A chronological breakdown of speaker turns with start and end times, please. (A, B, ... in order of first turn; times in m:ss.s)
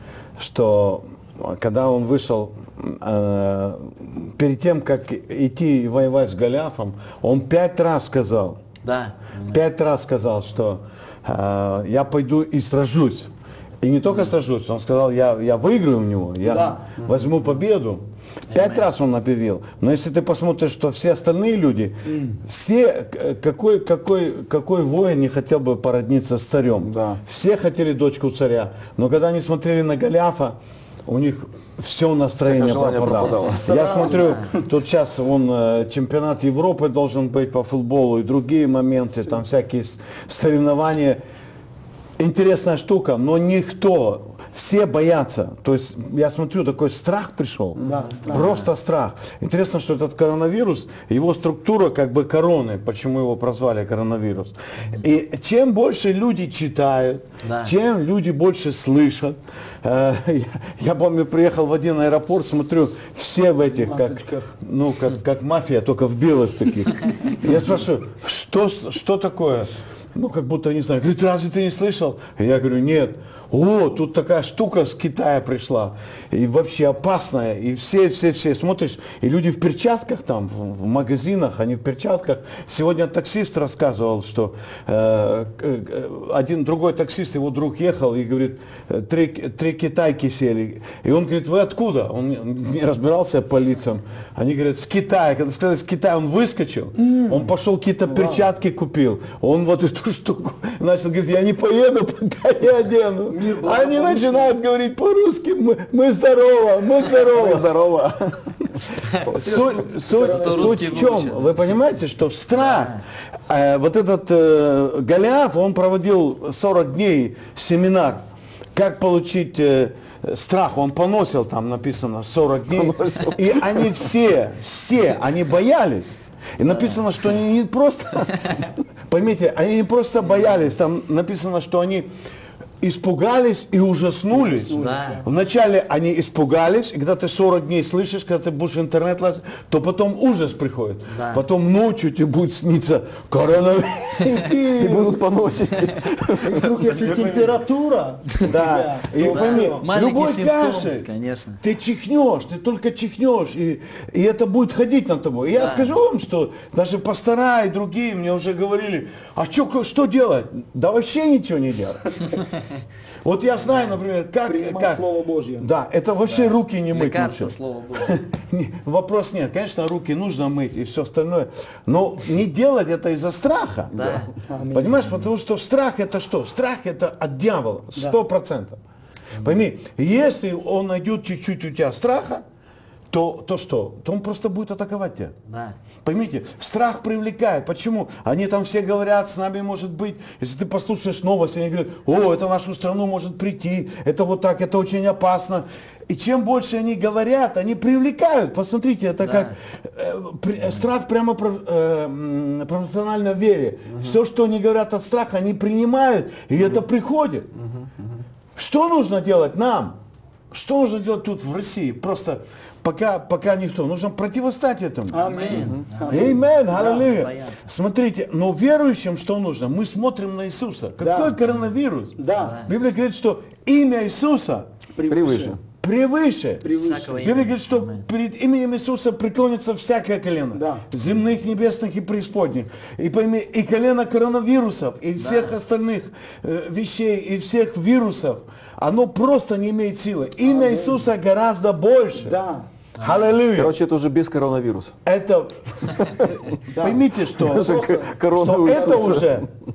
0:00.4-0:08.6 A
0:08.8-0:09.6 B
0:09.5-0:13.3 A
0:13.8-0:41.2 A
0:16.4-0:16.8 C
0:18.5-0:18.9 B
0:22.0-0:22.4 C
0:26.8-0:27.2 D
0:32.4-0:33.7 D
0:33.4-0:34.6 C
0:42.2-1:47.7 A
0:47.8-0:48.6 C
0:48.3-0:48.7 B
0:57.4-0:57.7 B
1:03.7-1:04.5 C
1:37.0-1:37.5 C
1:38.1-1:38.5 C
1:43.3-1:44.5 C
1:47.0-1:48.5 D
1:49.2-1:49.7 D
1:49.2-2:12.1 A
1:49.3-1:51.1 C
1:50.1-1:51.8 B
1:52.5-1:53.0 B
2:02.7-2:04.1 D
2:12.8-2:25.2 A
2:14.3-2:15.2 C
2:14.8-2:15.2 B
2:21.1-2:21.4 B
2:24.7-2:26.7 D
2:26.4-2:29.8 C
2:26.8-2:27.8 A
2:28.4-2:31.1 A
2:29.3-2:31.6 B
2:31.6-2:42.3 A
2:35.5-2:35.9 B
2:43.2-2:45.0 A
2:44.4-2:45.7 C
2:45.6-2:58.8 A
2:46.3-2:48.2 B
2:53.9-2:54.3 B
2:54.5-2:55.1 C
2:59.4-3:02.4 A
3:03.1-3:05.3 A
3:05.5-3:05.7 B
3:06.0-3:27.5 A
3:19.2-3:19.5 B
3:28.6-3:30.0 A
3:30.5-3:35.2 A
3:35.1-3:37.1 C
3:35.2-3:36.3 B
3:36.1-3:44.7 A
3:36.9-3:37.7 B
3:41.0-3:41.4 C
3:42.2-3:42.6 C
3:42.3-3:42.7 B
3:44.9-3:45.6 C
3:45.1-3:45.6 D
3:45.7-4:02.4 A
3:46.6-3:47.2 C
3:46.8-3:48.0 B
3:50.5-3:50.8 C
3:55.2-3:55.6 B
4:00.4-4:01.0 C
4:02.2-4:02.7 C
4:03.0-4:03.7 A
4:03.0-4:03.3 B
4:03.5-4:04.9 D
4:05.0-4:09.5 A
4:06.7-4:07.0 C
4:07.3-4:09.4 D
4:08.7-4:09.3 C